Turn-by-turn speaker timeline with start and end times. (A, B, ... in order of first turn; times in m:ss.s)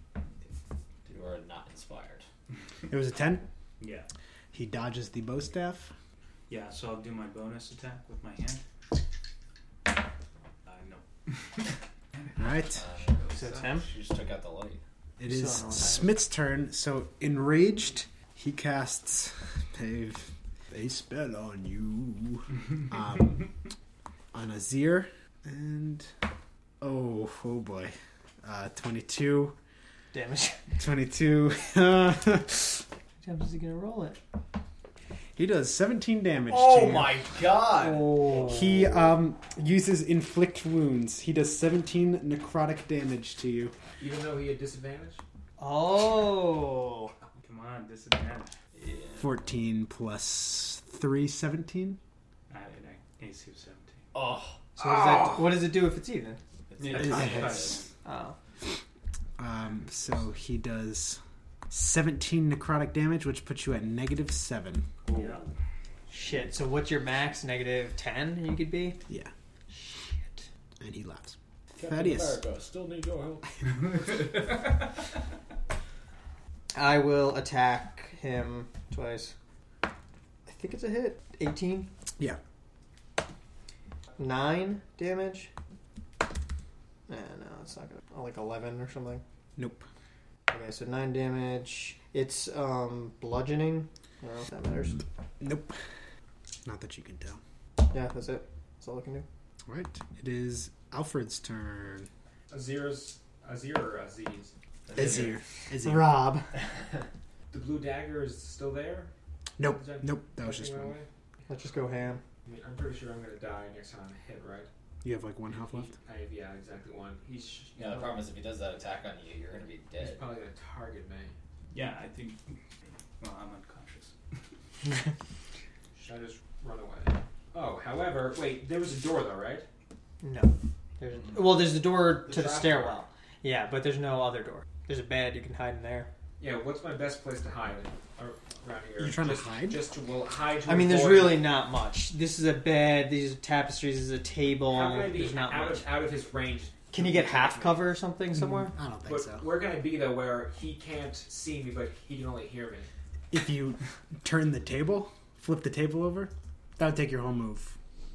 0:00.2-0:00.6 A
0:01.1-0:02.3 B
0:02.9-0:03.5 C
0:03.8-0:04.1 A
0:04.5-0:05.9 C
0:06.5-0:08.6 A
0:10.7-0:11.6 A
0:12.4-0:12.8 C
0:12.6-0:14.8 B
0:13.3-0:13.9 D
0:15.2-0:23.5 C
0:15.2-0:16.2 D
0:24.3-0:26.1 C
0:26.8-0:29.6 C
0:30.1-0:30.6 D
0:30.8-0:32.8 C
0:33.2-0:34.2 D
0:35.4-0:37.4 C
0:36.5-0:38.1 B
0:37.8-0:38.9 D
0:38.2-0:43.8 C
0:44.0-0:45.2 E
0:45.6-0:47.1 D
0:47.4-0:48.5 A
0:48.7-0:49.4 B
0:49.2-0:52.0 C
0:52.5-0:54.0 A
0:54.1-0:54.7 B
0:54.8-0:56.4 D
0:56.7-0:57.8 B
0:56.8-0:57.9 A
0:56.9-0:57.8 C
0:58.0-0:58.4 D
0:59.4-1:04.9 C
1:05.1-1:05.5 A
1:06.1-1:09.0 D
1:09.9-1:10.4 D
1:10.8-1:12.4 C
1:11.8-1:13.5 B
1:16.7-1:19.4 D
1:20.5-1:21.9 D
1:24.2-1:25.5 D
1:27.1-1:29.2 D
1:29.6-1:29.9 C
1:30.5-1:35.0 D
1:35.4-1:35.8 C
1:36.6-1:37.4 C
1:37.8-1:39.3 D
1:39.7-1:42.1 C
1:42.5-1:44.5 E
1:44.9-1:45.4 B
1:45.0-1:46.2 C
1:45.8-1:46.5 D
1:47.5-1:51.1 E
1:49.6-1:50.9 C
1:51.5-1:52.2 D
1:52.4-1:54.7 E
1:55.0-1:55.9 C
1:55.5-1:58.2 E
1:57.8-2:00.3 B
2:00.0-2:01.3 E
2:01.7-2:02.6 A
2:03.2-2:04.1 A
2:06.0-2:09.6 E
2:10.2-2:16.1 D
2:12.3-2:12.9 B
2:16.4-2:21.5 E
2:19.0-2:19.8 C
2:20.7-2:26.0 D
2:24.6-2:27.9 E
2:26.9-2:28.7 D
2:28.4-2:29.6 C
2:29.0-2:32.9 E
2:33.3-2:37.8 C